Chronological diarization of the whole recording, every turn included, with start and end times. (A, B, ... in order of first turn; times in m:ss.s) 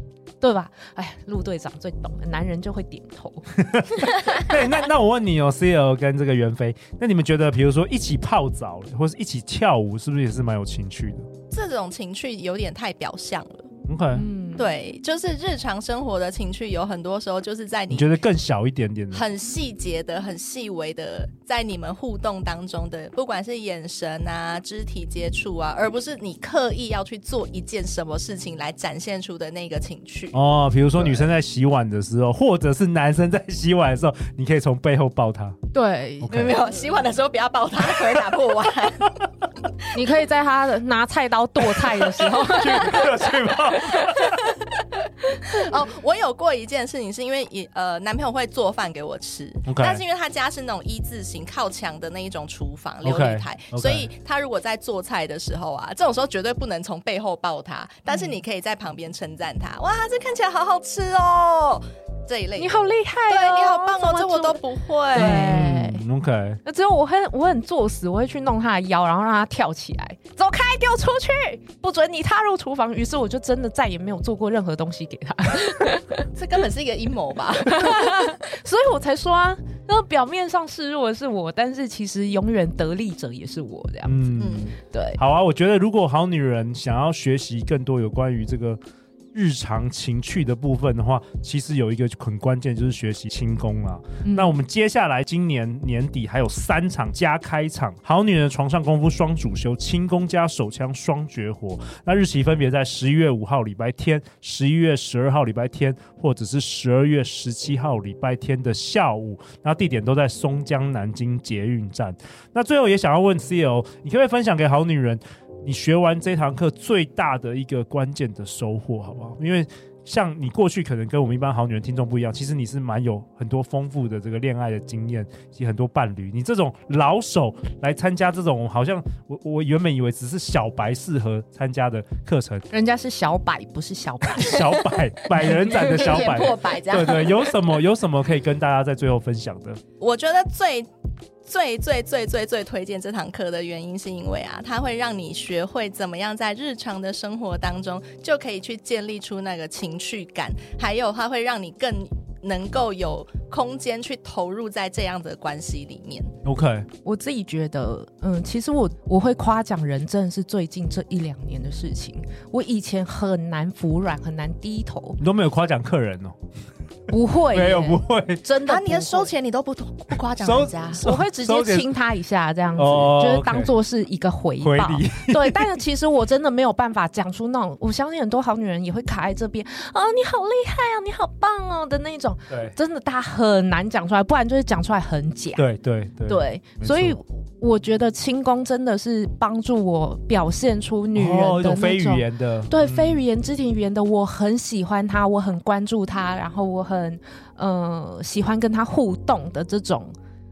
0:00.4-0:04.4 A
0:03.6-0:11.3 B
0:11.5-0:13.7 C
0:13.9-0:14.3 B
0:14.1-0:14.7 A
0:14.6-0:18.1 C
0:17.9-0:19.2 B
0:19.1-0:30.4 C
0:30.3-0:35.6 B
0:35.7-0:36.6 A
0:36.2-0:36.6 B
0:36.3-0:39.2 C
0:39.9-0:43.3 A
0:42.4-0:44.5 B
0:45.4-1:05.5 C
0:49.7-0:50.0 B
0:53.0-0:54.1 B
1:02.6-1:04.6 A
1:05.1-1:06.0 A
1:05.2-1:06.6 B
1:06.6-1:16.3 A
1:16.4-1:18.3 C
1:17.6-1:25.2 A
1:24.0-1:28.8 B
1:24.4-1:24.7 C
1:29.3-2:12.7 B
1:34.2-1:34.6 A
2:12.7-2:14.9 A
2:14.3-2:19.8 B
2:15.5-2:16.0 A
2:15.5-2:17.6 C
2:20.0-2:20.9 C
2:21.5-2:36.3 C
2:36.4-2:36.9 B
2:37.0-2:45.2 A
2:45.2-2:46.4 B
2:47.1-2:49.3 A
2:47.5-2:48.4 B
2:48.6-2:51.0 C
2:50.4-2:51.9 B
2:51.0-3:05.6 A
2:52.8-2:53.7 B
2:54.6-2:55.8 B
3:02.5-3:02.8 B
3:05.6-3:07.2 B
3:06.3-3:20.1 A
3:11.2-3:13.2 B